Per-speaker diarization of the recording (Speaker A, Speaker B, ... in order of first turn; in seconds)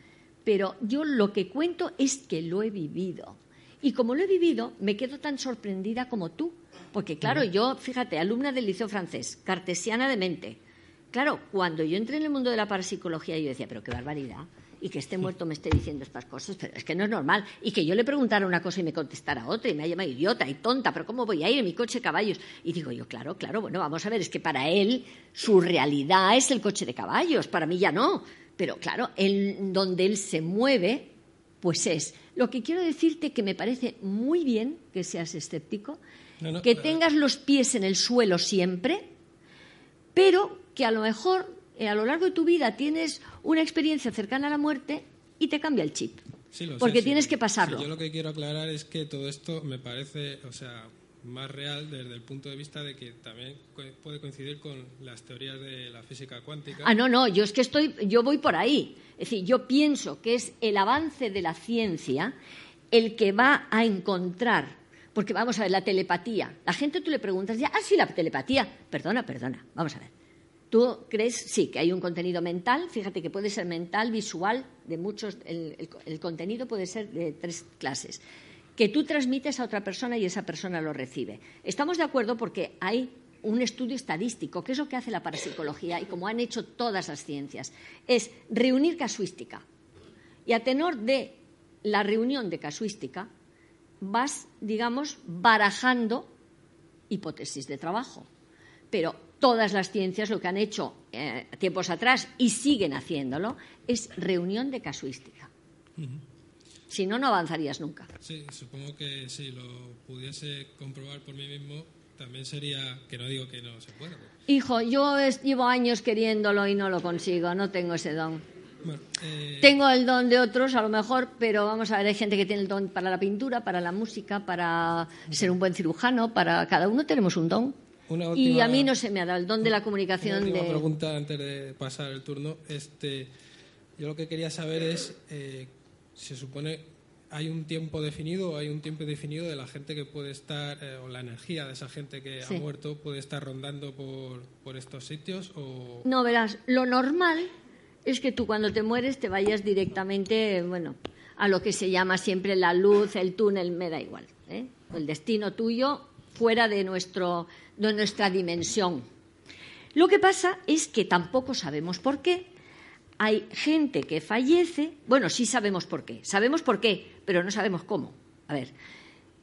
Speaker A: 0.5-10.6, 11.1-36.0, 36.6-39.1, 40.1-46.2, 46.8-47.9, 56.8-62.3, 62.9-70.1, 70.7-78.2, 78.8-89.6, 90.5-93.3, 94.0-96.3, 97.1-98.3, 98.9-105.5, 106.9-108.1, 114.5-118.4, 119.6-127.8, 128.3-130.8, 146.0-147.5, 148.1-159.1, 159.9-162.5, 163.2-168.7
Speaker B: 36.4-37.0, 46.5-56.9, 106.0-106.2, 108.2-114.3, 118.8-119.7, 128.1-128.9, 130.2-133.3, 134.0-146.1